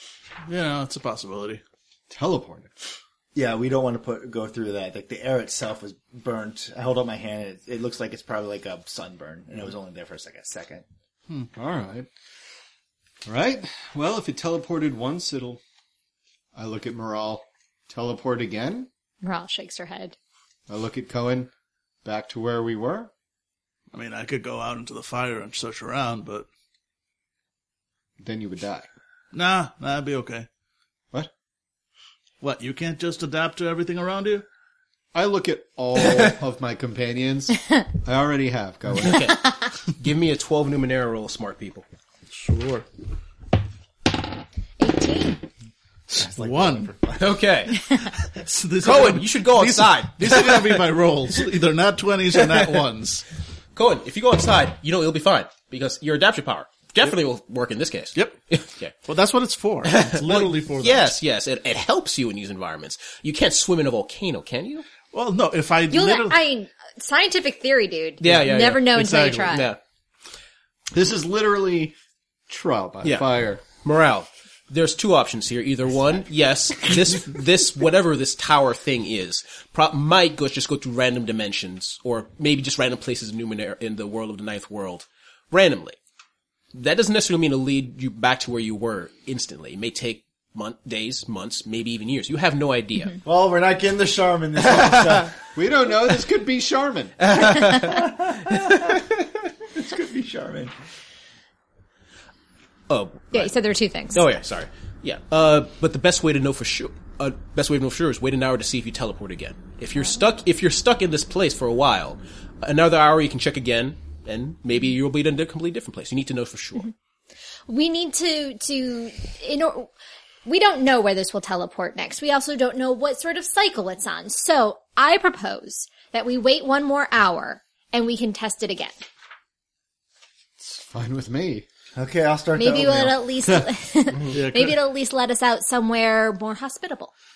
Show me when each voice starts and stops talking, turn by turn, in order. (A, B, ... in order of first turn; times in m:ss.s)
0:00.5-0:01.6 A
0:02.1-0:02.7 B
0:03.4-0:10.8 C
0:11.5-0:12.1 B
0:13.2-0:15.6 B
0:16.6-0:18.9 B
0:19.2-0:20.2 D
0:20.7-0:21.5 B
0:22.0-0:23.1 B
0:23.9-0:26.5 A
0:28.2-0:28.9 B
0:29.3-0:30.5 A
0:32.4-0:34.4 A
0:35.1-0:39.3 B
0:39.0-0:41.9 E
0:42.3-0:42.9 A
0:44.8-0:45.4 D
0:46.1-0:46.9 A
0:46.1-0:47.4 C
0:47.2-0:47.8 E
0:48.3-0:53.2 A
0:48.8-0:50.8 E
0:53.8-0:59.0 E
0:59.0-1:01.2 A
0:59.8-1:04.8 E
1:05.1-1:06.4 A
1:05.9-1:09.8 D
1:08.2-1:09.8 E
1:08.9-1:09.4 A
1:10.9-1:12.0 B
1:12.5-1:13.6 B
1:13.0-1:26.0 E
1:26.7-1:33.2 E
1:33.2-1:35.3 C
1:34.9-1:35.2 E
1:35.6-1:37.2 B
1:37.2-1:38.9 E
1:37.8-1:39.1 C
1:39.7-1:40.7 C
1:42.9-1:43.5 E
1:43.3-1:44.4 D
1:44.1-1:56.9 E
1:57.7-1:59.9 D
2:00.4-2:09.1 D
2:10.6-2:11.6 B
2:12.0-2:13.3 C
2:12.6-2:17.1 D
2:14.3-2:14.8 A